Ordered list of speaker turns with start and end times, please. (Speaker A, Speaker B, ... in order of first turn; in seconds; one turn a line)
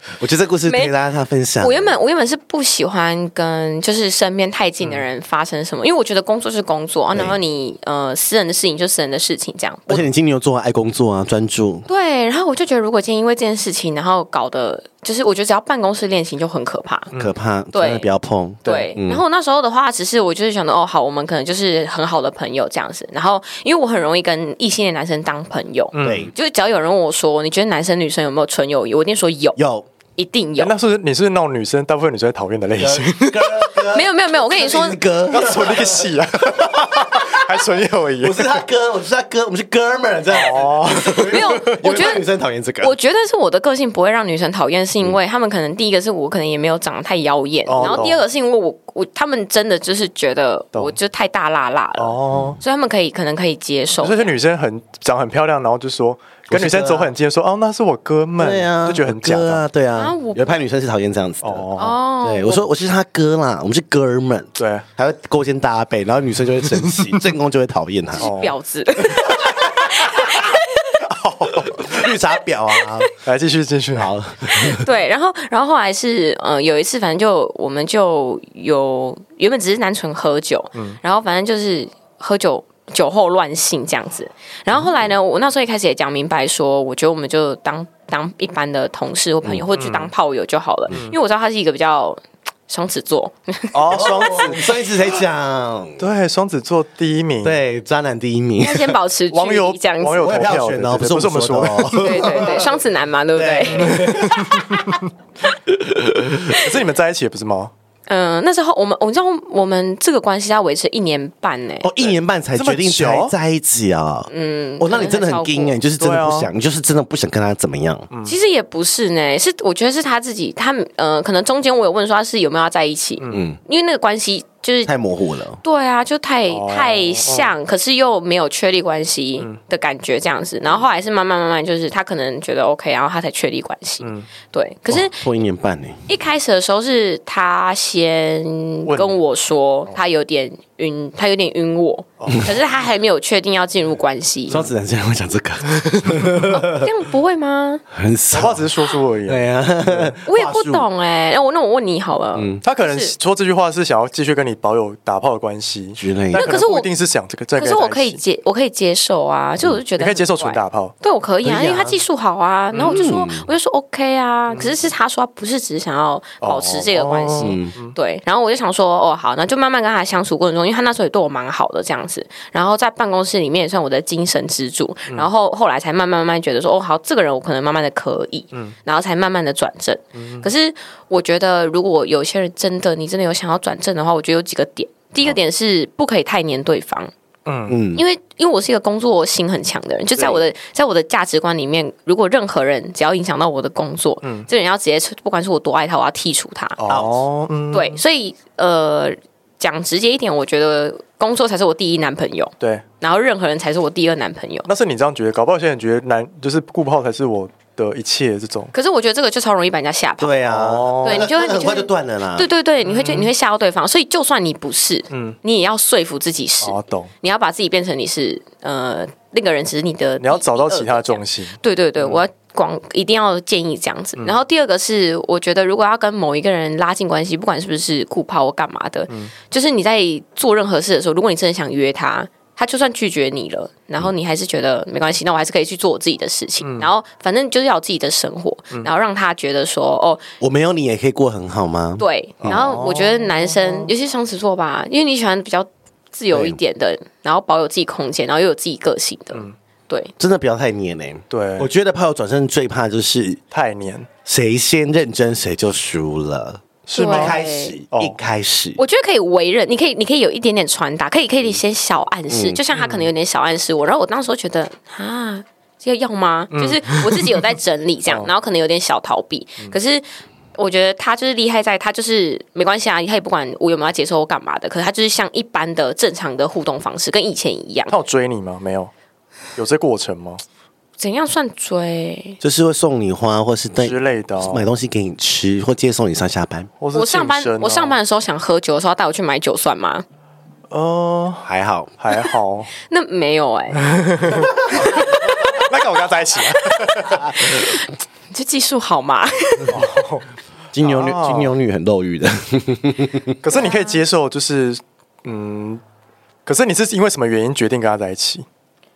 Speaker A: 0.2-2.0
Speaker B: 0.7-0.9
Speaker B: 1.6-10.1
Speaker A: 9.9-11.9
Speaker B: 11.9-17.1
Speaker A: 17.2-19.2
Speaker B: 17.7-18.1
Speaker B: 18.6-29.6
Speaker C: 25.9-26.3
Speaker A: 26.0-26.3
Speaker A: 29.6-29.9
Speaker B: 30.2-30.7
Speaker C: 30.6-33.6
Speaker A: 32.8-37.6
Speaker B: 33.9-35.0
Speaker C: 35.3-38.6
Speaker A: 38.2-43.0
Speaker C: 40.3-41.8
Speaker B: 41.3-42.2
Speaker B: 42.8-54.3
Speaker C: 47.7-48.2
Speaker A: 47.8-48.0
Speaker C: 52.0-52.6
Speaker A: 52.3-52.6
Speaker C: 54.0-59.6
Speaker A: 56.5-57.1
Speaker A: 58.4-61.7
Speaker B: 60.0-60.6
Speaker C: 61.4-62.0
Speaker B: 61.8-62.6
Speaker A: 62.2-68.3
Speaker C: 64.6-64.8
Speaker C: 66.8-67.2
Speaker B: 68.2-71.0
Speaker C: 68.2-68.5
Speaker A: 69.2-69.9
Speaker C: 71.1-72.1
Speaker A: 71.6-73.1
Speaker C: 73.2-74.1
Speaker A: 74.0-74.8
Speaker B: 74.5-94.2
Speaker C: 80.7-81.0
Speaker C: 89.7-90.1
Speaker C: 90.9-91.2
Speaker C: 93.7-94.7
Speaker A: 93.9-96.0
Speaker C: 96.0-97.6
Speaker A: 97.4-99.0
Speaker B: 98.6-100.4
Speaker C: 99.3-102.6
Speaker A: 100.2-102.8
Speaker B: 102.0-104.0
Speaker A: 103.3-104.8
Speaker C: 103.7-105.0
Speaker A: 105.7-106.6
Speaker C: 106.5-107.7
Speaker B: 108.1-111.9
Speaker A: 111.8-118.1
Speaker C: 112.0-113.3
Speaker B: 114.3-115.8
Speaker C: 116.0-116.5
Speaker C: 118.1-118.4
Speaker B: 118.2-124.9
Speaker A: 123.3-123.6
Speaker A: 124.9-125.6
Speaker B: 125.6-135.2
Speaker C: 126.5-127.5
Speaker C: 134.0-134.3
Speaker A: 134.9-136.1
Speaker B: 136.1-144.7
Speaker C: 138.9-139.2
Speaker C: 142.2-142.5
Speaker A: 144.5-146.9
Speaker B: 146.5-147.8
Speaker A: 147.9-148.7
Speaker C: 148.3-150.2
Speaker A: 149.2-150.9
Speaker B: 150.3-153.1
Speaker A: 152.3-152.6
Speaker C: 152.6-158.2
Speaker A: 156.0-156.5
Speaker B: 156.3-156.9
Speaker B: 157.6-187.1
Speaker C: 160.0-160.9
Speaker A: 161.4-162.0
Speaker C: 162.7-163.1
Speaker A: 162.8-163.5
Speaker C: 166.4-168.0
Speaker A: 167.4-167.7
Speaker C: 180.2-180.5
Speaker C: 187.5-187.8
Speaker A: 187.7-188.0
Speaker B: 187.9-196.8
Speaker C: 194.2-194.5
Speaker C: 196.8-198.0
Speaker A: 196.9-197.2
Speaker B: 197.7-204.7
Speaker C: 204.7-208.7
Speaker B: 208.7-210.5
Speaker A: 210.2-212.5
Speaker C: 210.5-211.3
Speaker B: 211.0-240.2
Speaker C: 212.8-213.3
Speaker C: 215.1-215.4
Speaker C: 216.6-217.1
Speaker C: 220.2-222.2
Speaker C: 236.6-236.9
Speaker A: 240.4-242.8
Speaker B: 242.0-250.1
Speaker C: 242.4-243.9
Speaker A: 246.3-246.6
Speaker A: 250.2-253.4
Speaker C: 251.3-251.7
Speaker C: 253.5-254.1
Speaker A: 254.2-258.8
Speaker C: 256.9-257.4
Speaker B: 256.9-257.8
Speaker C: 257.9-258.2
Speaker B: 258.8-270.1
Speaker A: 262.3-262.6
Speaker C: 262.7-263.1
Speaker C: 266.5-267.4
Speaker B: 270.6-277.9
Speaker C: 277.9-278.9
Speaker C: 279.6-280.4
Speaker B: 281.0-282.4
Speaker A: 282.4-286.7
Speaker C: 283.8-284.7
Speaker C: 286.8-288.0
Speaker B: 286.9-290.1
Speaker C: 290.7-291.5
Speaker A: 291.4-291.9
Speaker C: 292.0-292.7
Speaker B: 292.8-293.9
Speaker C: 293.7-297.4
Speaker B: 294.7-295.6
Speaker B: 297.4-299.9
Speaker C: 299.7-300.2
Speaker A: 300.7-303.4
Speaker C: 300.8-301.5
Speaker C: 303.4-305.8
Speaker B: 303.5-304.0
Speaker C: 306.5-308.4